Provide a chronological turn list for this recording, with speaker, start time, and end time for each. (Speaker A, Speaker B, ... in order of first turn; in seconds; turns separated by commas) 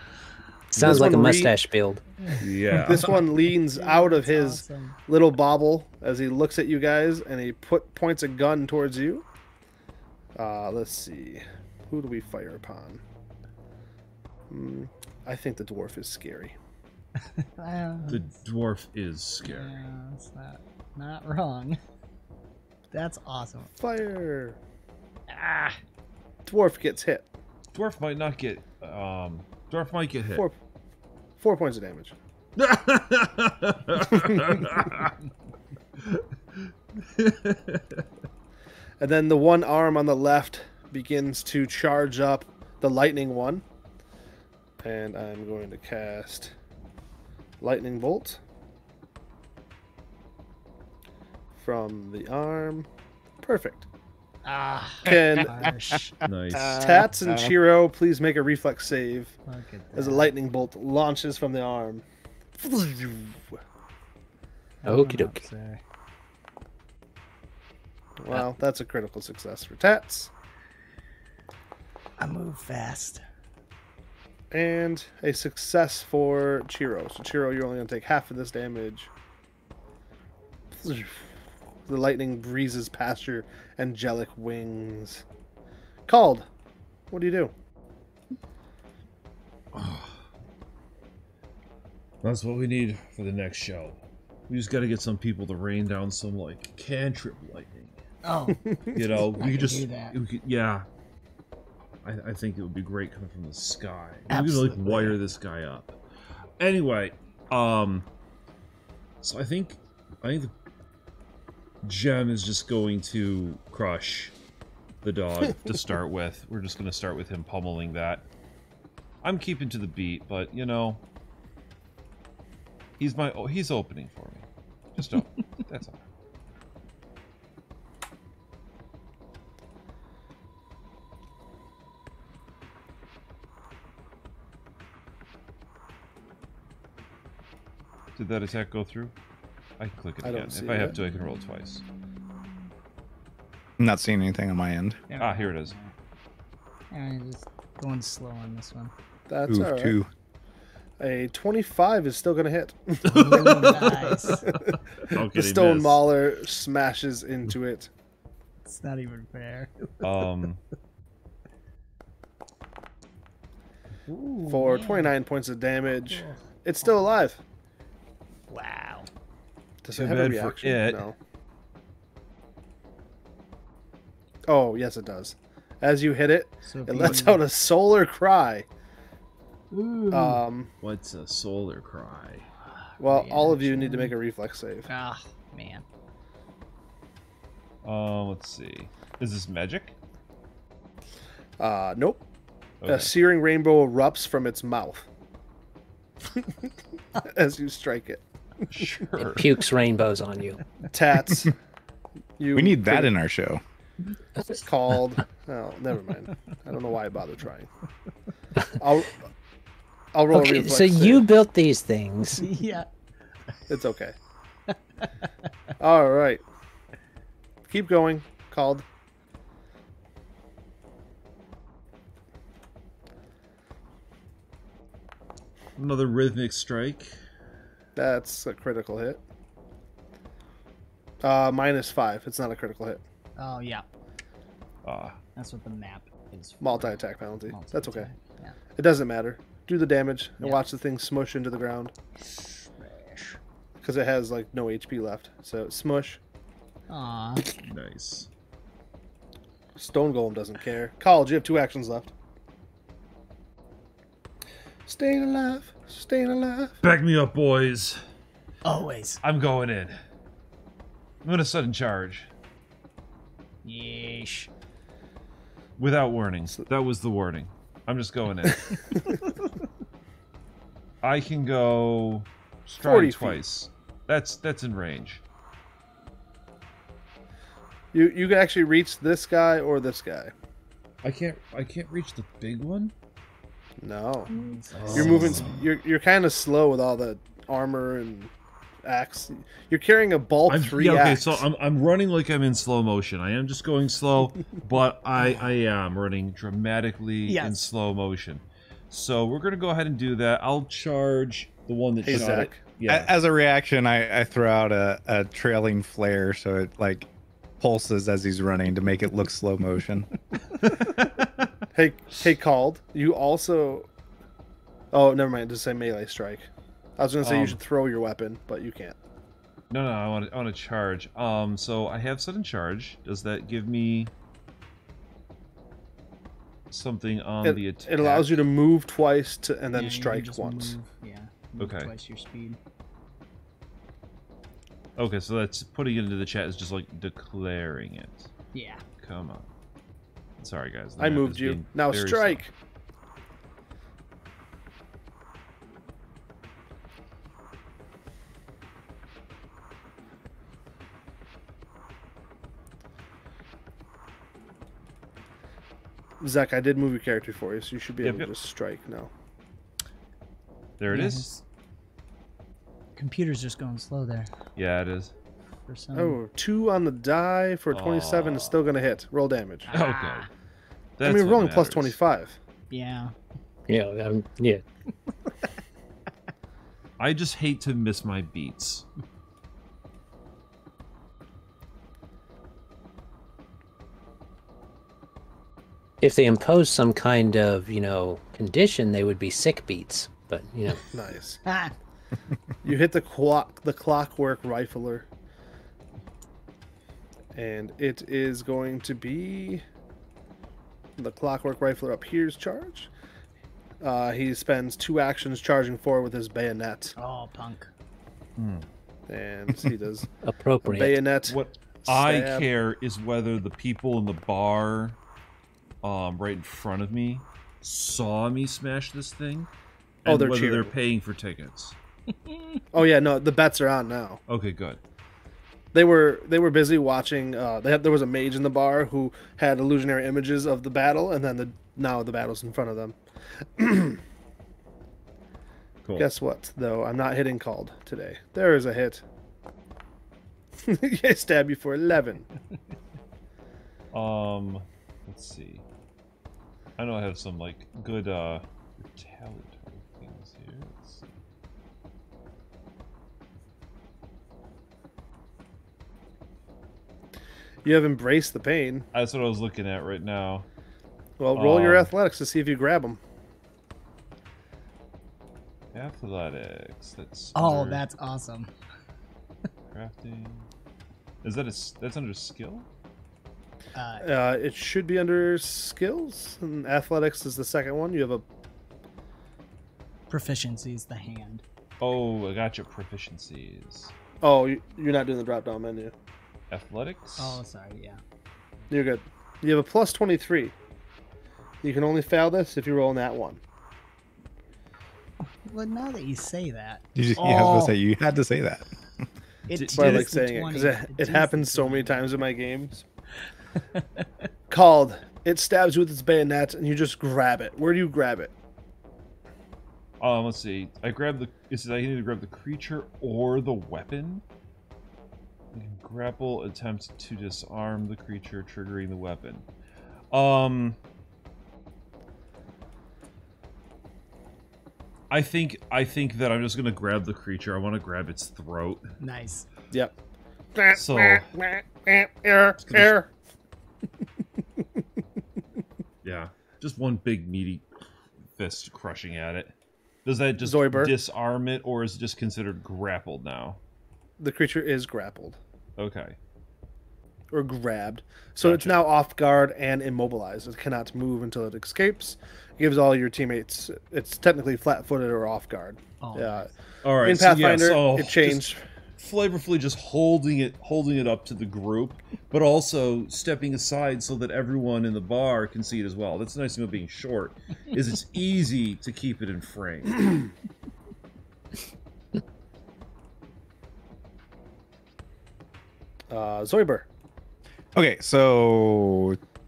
Speaker A: 0.7-2.0, Speaker B: 0.7-1.6, Speaker C: 0.8-1.2, Speaker C: 2.4-3.2, Speaker B: 2.8-9.2, Speaker D: 3.7-5.0, Speaker B: 10.4-13.0, Speaker B: 14.5-16.6, Speaker D: 17.4-18.3, Speaker C: 18.1-19.8, Speaker D: 19.4-21.8, Speaker D: 22.9-23.7, Speaker B: 23.8-24.6, Speaker D: 25.3-25.8, Speaker B: 26.5-27.3, Speaker C: 27.7-30.4, Speaker B: 31.4-32.1, Speaker C: 32.6-35.1, Speaker C: 36.0-38.0, Speaker B: 39.0-43.6, Speaker B: 44.8-46.5, Speaker B: 47.6-48.4, Speaker B: 51.5-52.9, Speaker B: 53.4-53.9, Speaker D: 54.5-56.2, Speaker B: 55.1-55.6, Speaker E: 55.1-56.0, Speaker C: 56.3-56.8, Speaker E: 56.5-57.5, Speaker B: 56.7-59.4, Speaker D: 59.5-60.3, Speaker B: 60.0-62.0, Speaker B: 62.6-63.6, Speaker D: 64.8-65.8, Speaker A: 64.9-65.4, Speaker B: 68.2-70.3, Speaker D: 72.2-73.2, Speaker B: 74.5-79.1, Speaker B: 80.7-81.3, Speaker B: 81.9-85.2, Speaker B: 86.1-86.5, Speaker B: 87.1-87.5, Speaker C: 89.7-90.2, Speaker C: 92.2-94.0, Speaker C: 94.5-98.0, Speaker D: 98.2-100.2, Speaker B: 98.6-99.0, Speaker C: 99.0-100.9, Speaker C: 102.0-106.0, Speaker D: 104.3-105.2, Speaker C: 106.6-108.1, Speaker C: 109.2-110.5, Speaker C: 111.8-114.3, Speaker C: 115.0-118.2, Speaker C: 119.2-121.0, Speaker C: 123.0-126.0, Speaker C: 138.2-139.1, Speaker C: 139.8-141.8, Speaker B: 140.2-141.0, Speaker E: 143.8-145.0, Speaker D: 145.1-145.9, Speaker C: 145.2-145.8, Speaker D: 146.9-148.9, Speaker B: 149.3-150.0, Speaker E: 149.5-150.1, Speaker B: 151.0-153.8, Speaker D: 153.1-154.5, Speaker C: 153.1-156.0, Speaker B: 154.6-157.9, Speaker D: 158.6-160.1, Speaker C: 160.0-160.6, Speaker D: 164.1-165.2, Speaker B: 164.5-167.4, Speaker D: 166.1-166.4, Speaker D: 168.5-169.1, Speaker B: 169.8-171.2, Speaker C: 169.9-171.1, Speaker B: 174.5-178.7, Speaker D: 176.7-177.4, Speaker D: 179.7-180.4, Speaker B: 180.1-180.7, Speaker C: 180.8-182.5, Speaker D: 183.0-184.2, Speaker B: 183.0-184.9, Speaker D: 184.9-185.8, Speaker C: 187.8-189.9, Speaker B: 191.6-192.2, Speaker C: 192.8-193.1, Speaker B: 192.9-195.1, Speaker B: 197.2-198.2, Speaker C: 198.7-199.5, Speaker A: 199.2-200.6, Speaker B: 200.9-201.6, Speaker B: 202.4-203.1, Speaker E: 202.5-203.6, Speaker B: 204.5-207.7, Speaker B: 208.8-209.1, Speaker B: 210.1-211.2, Speaker A: 210.3-212.5, Speaker D: 212.4-212.9, Speaker B: 213.7-214.2, Speaker B: 215.8-216.4, Speaker B: 217.7-218.8, Speaker C: 225.8-227.1, Speaker B: 228.0-229.2, Speaker B: 231.2-233.0, Speaker D: 233.4-233.8, Speaker C: 234.8-235.2, Speaker D: 235.4-238.6, Speaker B: 236.6-238.1, Speaker B: 238.8-241.9, Speaker D: 242.2-243.4, Speaker B: 243.8-246.2, Speaker D: 246.9-247.6, Speaker C: 247.6-248.3, Speaker B: 249.8-252.1, Speaker B: 254.9-256.8, Speaker C: 256.8-258.0, Speaker D: 258.6-259.2, Speaker C: 259.2-260.0, Speaker C: 261.2-262.3, Speaker D: 263.6-264.5, Speaker C: 265.8-268.8, Speaker C: 271.0-275.2, Speaker B: 272.8-273.4, Speaker B: 277.9-280.3, Speaker C: 281.0-282.9, Speaker B: 283.8-284.3, Speaker D: 284.3-285.6, Speaker C: 284.7-285.6, Speaker B: 284.9-288.3, Speaker B: 288.9-291.4, Speaker C: 290.5-303.1, Speaker D: 297.3-297.7, Speaker B: 302.0-302.6, Speaker E: 302.9-307.1, Speaker E: 307.6-310.1, Speaker C: 310.6-311.4, Speaker B: 311.7-313.9, Speaker B: 314.9-319.0, Speaker C: 317.2-317.6, Speaker C: 319.7-324.1, Speaker C: 326.7-328.4, Speaker B: 327.4-330.8, Speaker D: 329.7-332.6, Speaker C: 331.6-331.9, Speaker C: 335.0-338.3, Speaker D: 338.5-338.8, Speaker C: 339.0-339.5, Speaker C: 340.4-342.4, Speaker B: 341.0-342.5, Speaker B: 356.2-359.1, Speaker C: 358.0-358.3, Speaker C: 360.8-361.3, Speaker D: 360.9-361.4, Speaker D: 363.0-364.3, Speaker C: 364.6-365.1, Speaker D: 365.7-366.2, Speaker B: 365.9-369.7, Speaker C: 367.7-368.7, Speaker D: 369.7-370.3, Speaker C: 369.7-370.3, Speaker C: 371.0-372.0, Speaker B: 371.0-372.4, Speaker D: 372.7-373.1, Speaker A: 373.7-374.6, Speaker C: 377.0-378.9, Speaker A: 386.0-390.9, Speaker B: 390.9-391.4, Speaker D: 391.5-391.7, Speaker B: 392.6-395.1, Speaker B: 397.3-399.6, Speaker B: 401.0-402.9, Speaker B: 403.8-406.9, Speaker D: 407.0-407.7, Speaker C: 408.4-408.7, Speaker B: 409.1-410.1, Speaker A: 410.2-411.0, Speaker B: 410.6-412.5, Speaker C: 411.3-415.0, Speaker C: 415.8-419.5, Speaker C: 420.1-421.8, Speaker B: 420.1-420.7, Speaker B: 422.7-424.2, Speaker C: 424.3-424.8, Speaker B: 425.7-433.0, Speaker B: 433.6-434.0, Speaker C: 435.8-436.1, Speaker B: 436.0-439.0, Speaker B: 440.6-442.3, Speaker C: 443.9-445.6, Speaker C: 446.8-451.1, Speaker B: 457.6-458.9, Speaker C: 458.9-460.5, Speaker B: 461.2-463.0, Speaker C: 461.3-461.9, Speaker C: 465.7-467.8, Speaker D: 467.4-468.5, Speaker C: 469.7-470.5, Speaker C: 471.2-472.7, Speaker D: 473.8-474.1, Speaker B: 474.0-478.2, Speaker D: 480.1-481.4, Speaker C: 481.8-483.9, Speaker B: 484.2-485.9, Speaker C: 486.5-487.4, Speaker D: 487.2-488.0, Speaker B: 488.7-490.5, Speaker B: 491.6-493.4, Speaker D: 495.2-497.8, Speaker E: 497.0-498.7, Speaker D: 499.5-502.0, Speaker C: 499.5-500.1, Speaker B: 499.7-502.8, Speaker B: 504.5-508.3, Speaker C: 510.0-514.2, Speaker C: 515.5-519.5, Speaker C: 520.1-520.8, Speaker C: 525.1-528.9, Speaker D: 529.0-529.5, Speaker B: 530.5-533.1, Speaker C: 530.7-531.3, Speaker C: 532.6-533.0, Speaker C: 536.0-537.7, Speaker C: 538.3-539.5, Speaker C: 540.0-543.6, Speaker B: 540.4-541.0, Speaker B: 544.2-545.4, Speaker C: 545.8-546.2, Speaker B: 547.3-556.5, Speaker C: 548.4-548.8, Speaker D: 556.0-556.5, Speaker C: 556.8-570.3, Speaker B: 557.0-558.6, Speaker B: 576.1-576.9, Speaker E: 577.8-579.2